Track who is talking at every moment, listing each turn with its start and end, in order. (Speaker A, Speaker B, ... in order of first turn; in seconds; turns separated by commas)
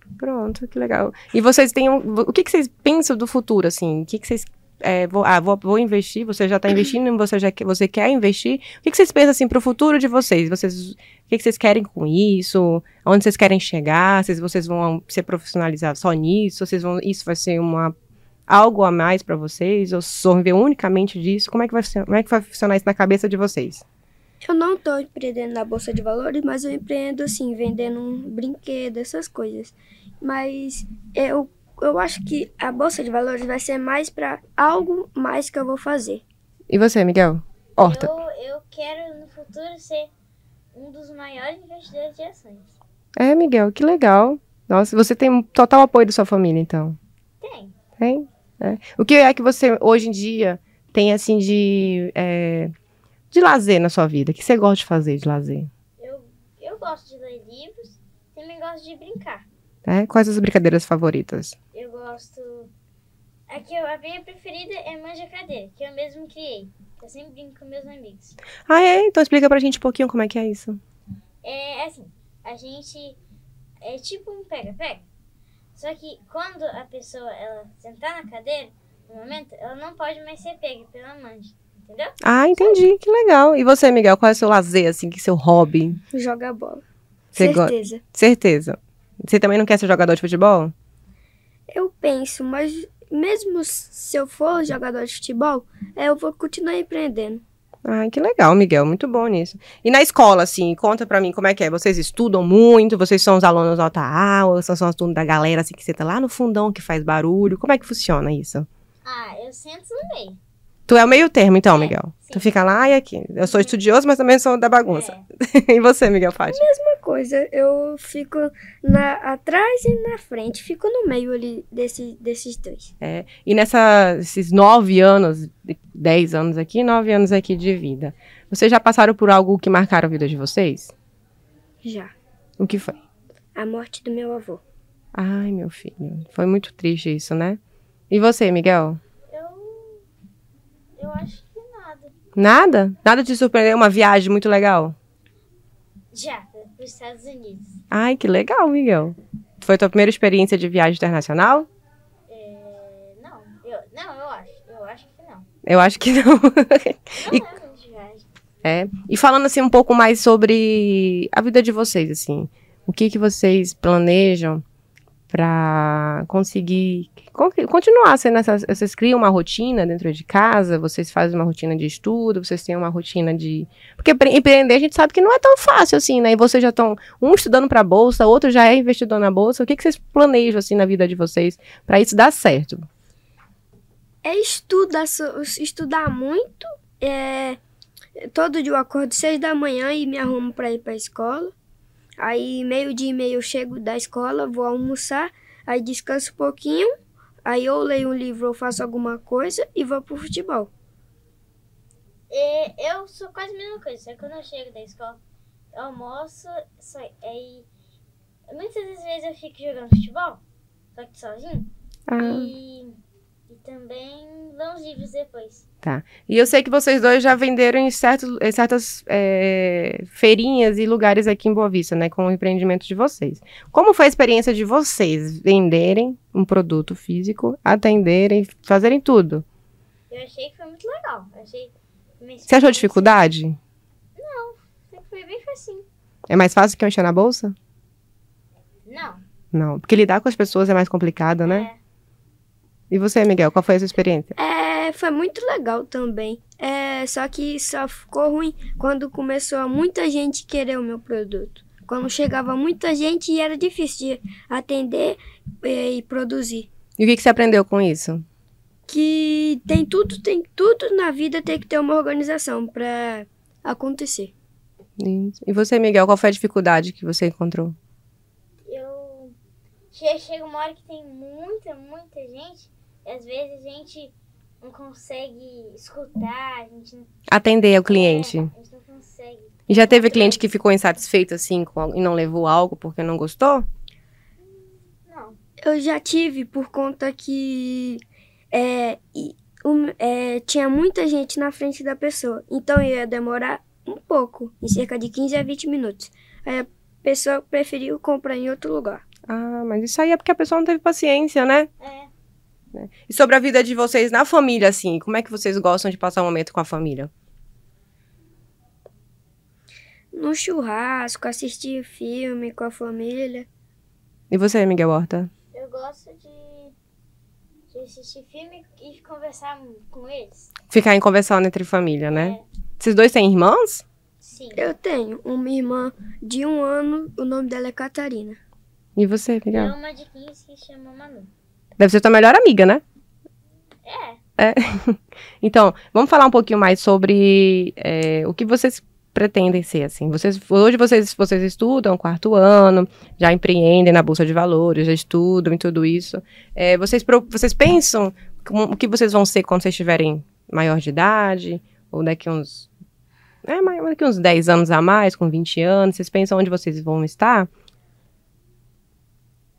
Speaker A: 0.2-17.9, Speaker A: 18.5-23.8, Speaker B: 24.4-36.2, Speaker A: 36.7-38.1, Speaker C: 37.8-40.1, Speaker C: 40.7-42.7, Speaker A: 43.2-47.0, Speaker C: 47.4-47.8, Speaker A: 48.0-52.7, Speaker A: 53.3-55.7, Speaker C: 56.0-59.5, Speaker A: 59.9-61.6, Speaker C: 61.7-62.7, Speaker C: 63.5-68.4, Speaker A: 68.7-70.8, Speaker C: 71.4-73.2, Speaker C: 73.8-75.0, Speaker C: 75.8-82.8, Speaker A: 82.2-86.0, Speaker B: 86.1-86.8, Speaker B: 87.3-88.0, Speaker A: 87.3-90.7, Speaker B: 91.7-97.4, Speaker A: 97.8-108.7, Speaker C: 109.0-110.4, Speaker A: 110.9-116.7, Speaker C: 111.7-112.5, Speaker C: 113.5-113.7, Speaker C: 114.9-115.2, Speaker B: 116.5-122.9, Speaker A: 123.0-130.9, Speaker B: 131.8-132.1, Speaker A: 132.6-133.0, Speaker B: 133.6-134.6, Speaker A: 135.2-139.0, Speaker C: 139.3-140.1, Speaker C: 141.0-142.1, Speaker A: 142.4-145.0, Speaker C: 146.1-147.8, Speaker A: 147.9-151.7, Speaker C: 152.3-155.5, Speaker A: 155.6-157.4, Speaker C: 157.2-158.3, Speaker A: 158.6-164.6, Speaker A: 165.3-182.9, Speaker B: 184.2-187.6, Speaker B: 188.2-191.5, Speaker B: 192.2-196.9, Speaker B: 197.4-200.7, Speaker C: 202.3-205.2, Speaker C: 205.7-207.7, Speaker C: 208.5-210.4, Speaker C: 210.9-213.0, Speaker A: 212.1-212.5, Speaker C: 213.5-215.7, Speaker A: 215.8-229.4, Speaker C: 230.1-233.2, Speaker A: 232.5-233.6, Speaker C: 234.2-235.9, Speaker A: 236.3-237.6, Speaker C: 238.9-239.2, Speaker A: 239.5-241.7, Speaker C: 241.4-241.8, Speaker A: 242.9-244.3, Speaker B: 244.4-256.7, Speaker A: 257.0-258.2, Speaker B: 258.9-264.3, Speaker A: 265.0-267.8, Speaker C: 268.7-269.3, Speaker C: 269.9-277.1, Speaker A: 277.3-278.5, Speaker C: 277.9-280.4, Speaker A: 279.7-283.7, Speaker C: 285.1-285.4, Speaker B: 285.6-299.0, Speaker A: 299.3-301.7, Speaker C: 301.8-302.1, Speaker A: 302.7-307.1, Speaker B: 310.1-313.5, Speaker A: 314.3-315.3, Speaker C: 315.5-316.8, Speaker C: 317.7-320.5, Speaker A: 320.7-323.9, Speaker C: 322.1-322.4, Speaker C: 324.2-324.6, Speaker B: 324.6-328.4, Speaker A: 329.0-329.7, Speaker C: 329.5-331.3, Speaker A: 331.8-332.8, Speaker C: 333.9-334.2, Speaker A: 334.4-352.7, Speaker A: 353.4-357.5